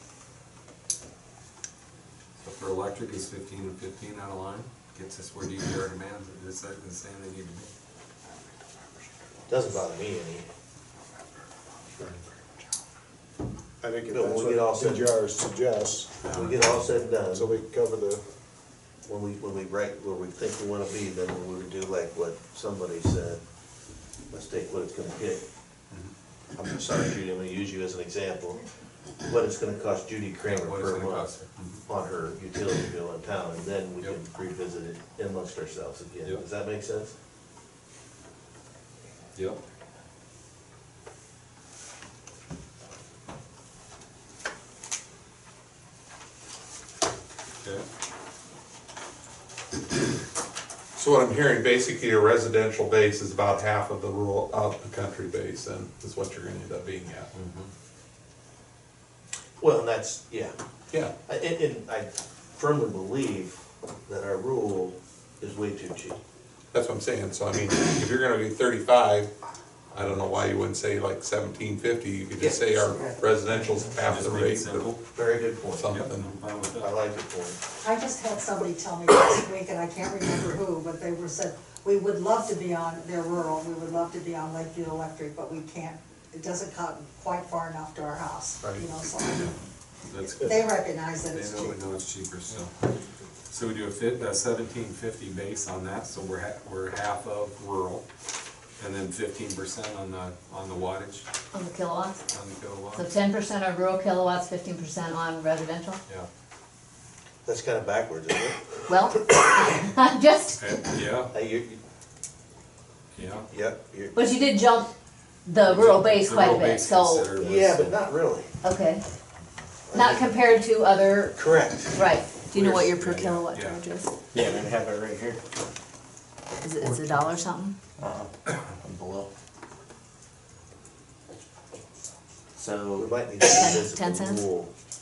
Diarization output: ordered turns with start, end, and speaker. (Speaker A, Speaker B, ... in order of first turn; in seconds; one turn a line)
Speaker A: 2.4-7.7
Speaker B: 9.5-10.5
Speaker C: 13.8-18.3
Speaker B: 14.1-15.2
Speaker A: 16.2-16.8
Speaker B: 16.3-17.5
Speaker B: 19.1-23.4
Speaker B: 24.3-25.4
Speaker B: 26.6-28.6
Speaker B: 29.3-31.3
Speaker A: 30.4-31.8
Speaker B: 31.9-37.2
Speaker A: 39.4-39.6
Speaker D: 51.0-57.3
Speaker A: 57.3-57.7
Speaker B: 59.6-60.6
Speaker B: 61.3-66.2
Speaker D: 66.7-69.3
Speaker D: 69.9-74.9
Speaker A: 69.9-70.3
Speaker B: 72.4-73.1
Speaker A: 74.0-75.0
Speaker B: 75.1-75.9
Speaker D: 75.8-76.3
Speaker A: 75.9-77.0
Speaker B: 76.8-77.6
Speaker E: 77.8-89.5
Speaker A: 90.1-92.7
Speaker E: 90.2-91.8
Speaker A: 93.5-98.0
Speaker A: 98.8-101.3
Speaker F: 101.5-102.2
Speaker A: 102.3-103.1
Speaker F: 103.0-106.0
Speaker B: 107.5-108.8
Speaker F: 108.9-110.6
Speaker A: 110.6-111.3
Speaker B: 111.3-111.8
Speaker A: 113.1-113.5
Speaker B: 113.5-114.2
Speaker F: 114.2-114.9
Speaker F: 115.5-117.3
Speaker A: 115.6-118.0
Speaker B: 117.3-118.5
Speaker F: 118.6-119.0
Speaker B: 119.9-120.4
Speaker F: 119.9-124.1
Speaker B: 121.3-122.9
Speaker A: 122.9-123.8
Speaker G: 124.3-125.4
Speaker F: 126.6-127.8
Speaker G: 128.8-129.3
Speaker G: 132.6-133.1
Speaker B: 132.9-134.7
Speaker F: 133.4-134.5